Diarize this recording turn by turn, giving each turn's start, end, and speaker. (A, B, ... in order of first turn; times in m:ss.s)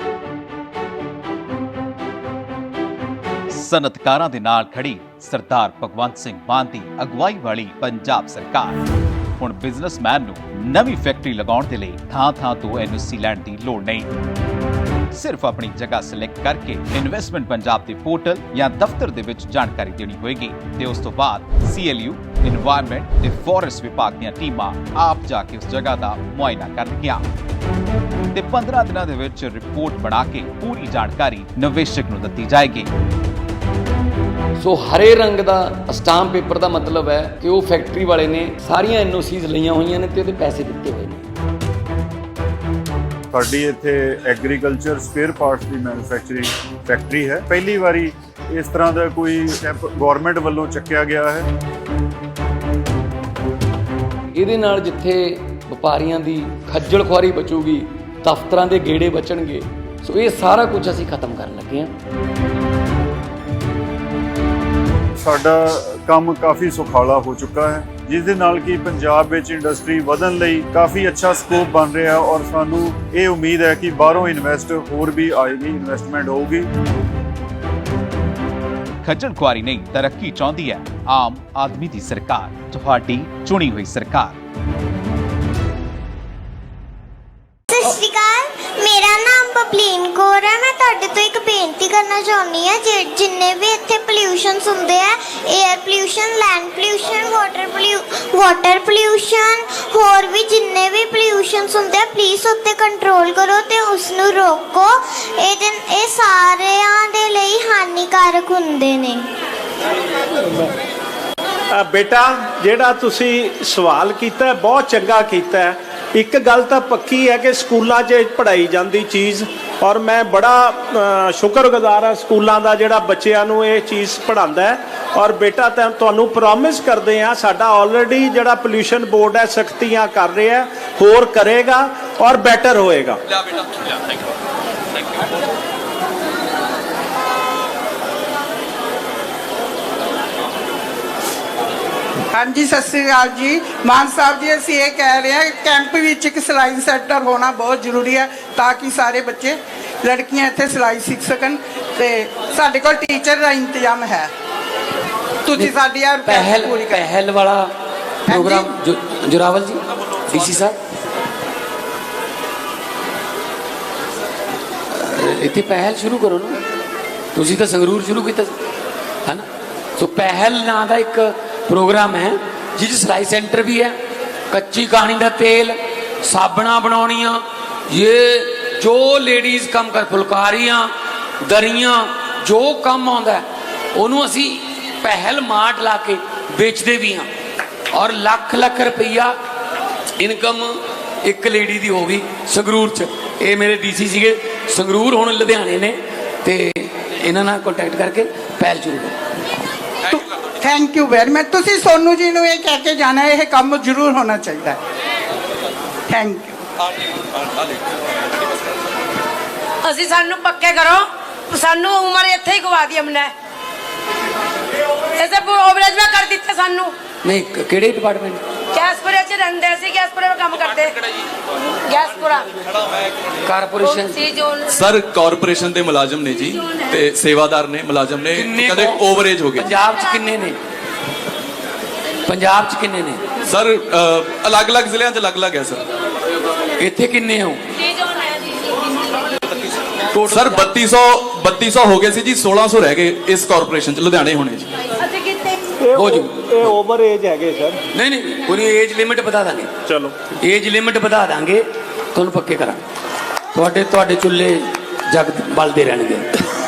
0:03.6-0:08.8 A
0:09.4-0:14.1 A
0:15.2-0:27.2 A
0:28.3-0:32.9 A
0:34.6-0:41.3 B
0:43.3-0:51.5 C
0:54.3-1:01.9 B
1:05.2-1:16.7 C
1:19.0-1:24.4 A
1:27.7-1:49.3 D
1:51.7-2:13.2 E
2:22.3-2:34.3 F
2:35.4-2:37.0 F
2:35.5-2:37.7 B
2:38.3-2:38.7 F
2:38.3-2:40.8 B
2:44.9-2:46.6 B
2:47.4-2:48.6 B
2:50.0-2:54.0 B
2:54.5-3:00.9 B
3:01.4-3:07.3 B
3:07.9-3:09.4 B
3:10.2-3:19.2 B
3:20.1-3:24.8 F
3:26.1-3:26.6 F
3:29.8-3:33.3 G
3:35.2-3:36.9 G
3:37.2-3:38.4 B
3:38.7-3:40.9 G
3:41.9-3:42.5 G
3:43.5-3:44.2 B
3:43.8-3:44.6 G
3:44.7-3:49.7 H
3:48.4-3:50.6 B
3:52.3-3:53.2 B
3:53.5-3:55.8 H
3:56.8-3:57.6 B
4:00.1-4:00.8 B
4:00.2-4:04.7 H
4:05.8-4:07.8 E
4:06.0-4:06.3 B
4:07.9-4:09.7 B
4:09.9-4:10.1 E
4:10.3-4:12.8 B
4:13.5-4:16.3 B